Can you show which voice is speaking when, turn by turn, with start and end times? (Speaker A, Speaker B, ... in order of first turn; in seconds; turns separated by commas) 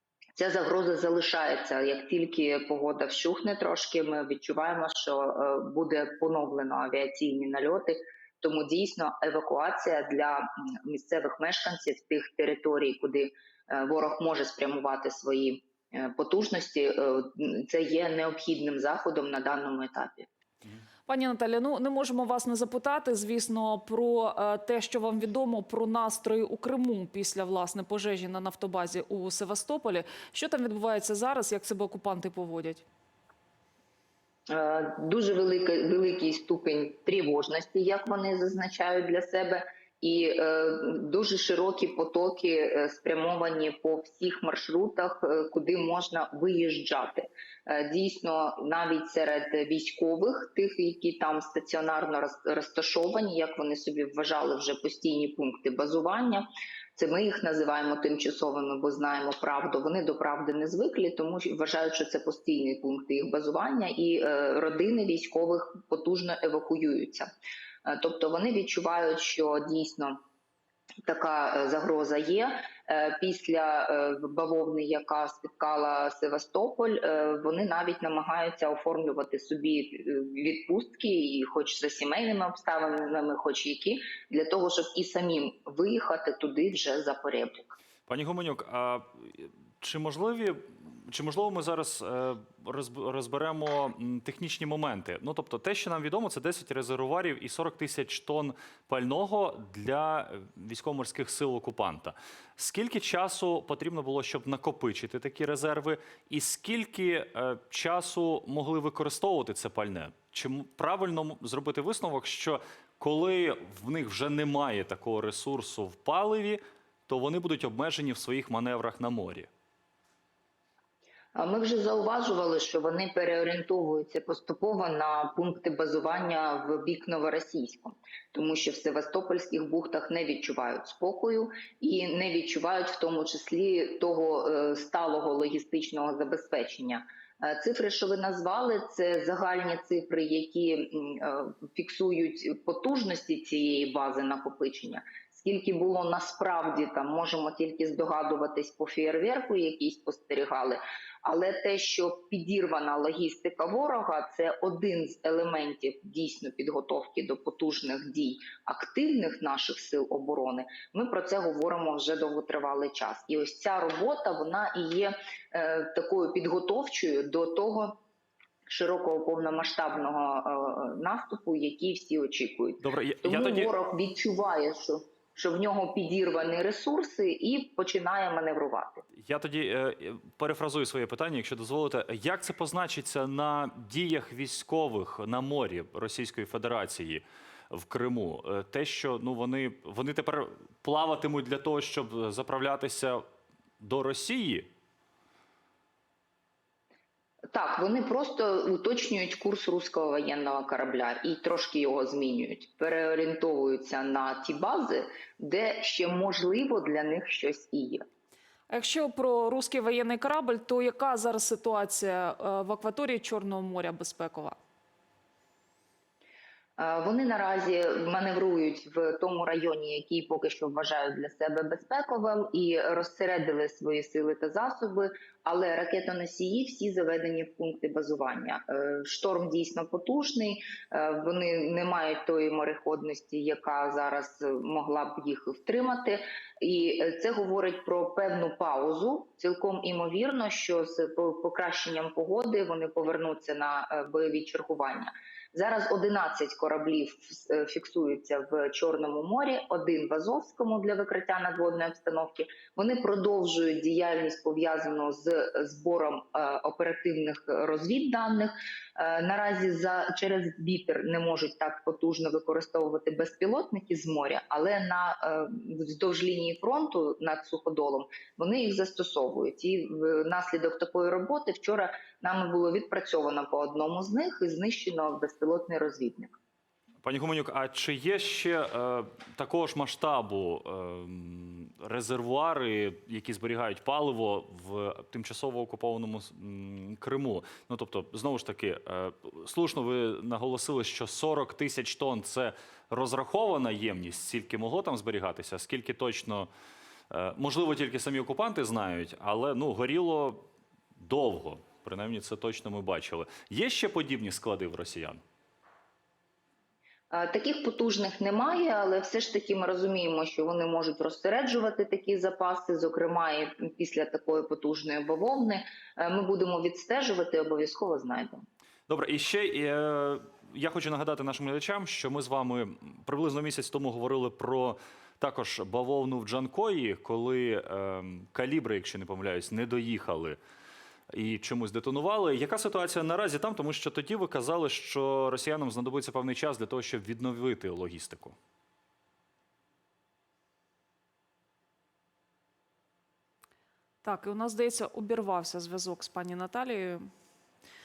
Speaker A: 0.3-20.3, Speaker B: 21.1-32.8, Speaker A: 34.5-67.3, Speaker A: 67.8-70.2, Speaker A: 71.0-87.8, Speaker C: 88.1-119.5, Speaker A: 121.3-168.0, Speaker A: 168.7-179.0, Speaker C: 172.8-173.7, Speaker C: 179.2-193.2, Speaker C: 193.8-194.7, Speaker A: 197.5-208.0, Speaker B: 208.7-214.6, Speaker A: 216.8-276.4, Speaker C: 277.0-296.5, Speaker C: 297.1-300.4, Speaker C: 300.9-305.2, Speaker A: 307.1-318.4, Speaker C: 318.9-330.4, Speaker C: 331.1-338.4, Speaker B: 344.0-347.0